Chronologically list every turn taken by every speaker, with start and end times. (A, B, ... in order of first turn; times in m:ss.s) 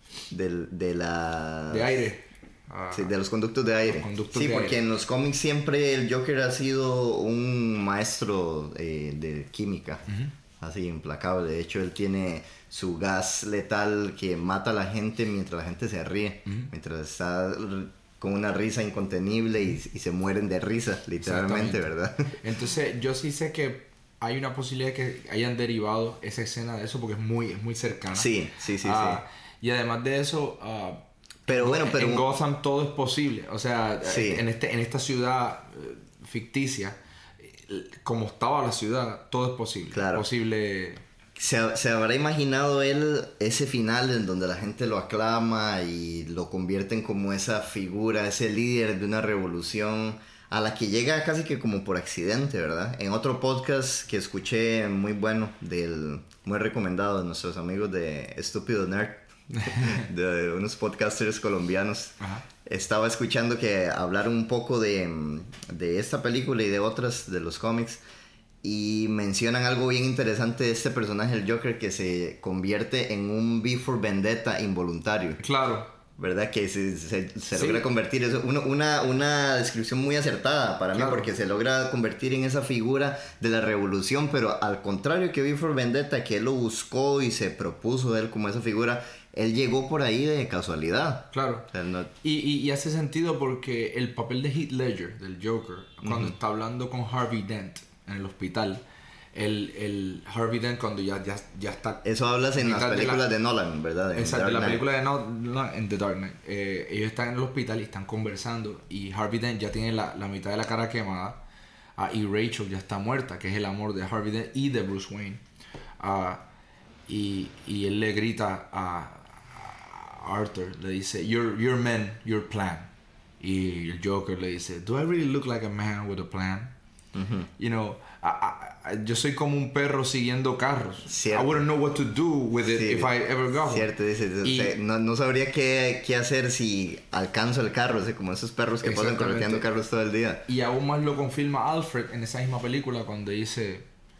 0:00.3-0:02.0 A
0:01.7-0:03.1 B
0:02.9-0:10.0 A
0:03.8-0:04.8 B
0:10.6-0:22.4 A
0:21.2-0:21.8 B
0:22.4-0:28.3 B
0:28.1-0:29.2 A
0:28.8-0:41.0 B
0:31.5-0:32.2 A
0:34.0-0:34.4 A
0:39.9-0:40.2 A
0:41.4-1:08.0 A
0:59.6-1:00.0 B
1:02.2-1:02.4 B
1:08.6-1:15.4 A
1:15.4-1:15.9 B
1:16.2-1:32.1 A
1:17.5-1:17.8 B
1:20.9-1:21.3 B
1:31.3-1:31.7 B
1:32.2-1:38.8 B
1:36.0-1:36.3 A
1:39.3-1:42.0 B
1:42.0-1:44.8 A
1:42.6-1:43.2 B
1:44.2-1:51.4 B
1:52.0-1:55.4 B
1:56.0-1:56.4 B
1:57.1-2:06.7 B
2:07.1-2:07.5 A
2:07.6-2:13.9 B
2:11.1-2:11.6 A
2:12.7-2:20.4 A
2:14.4-2:14.7 B
2:18.8-2:19.6 B
2:20.5-2:23.8 B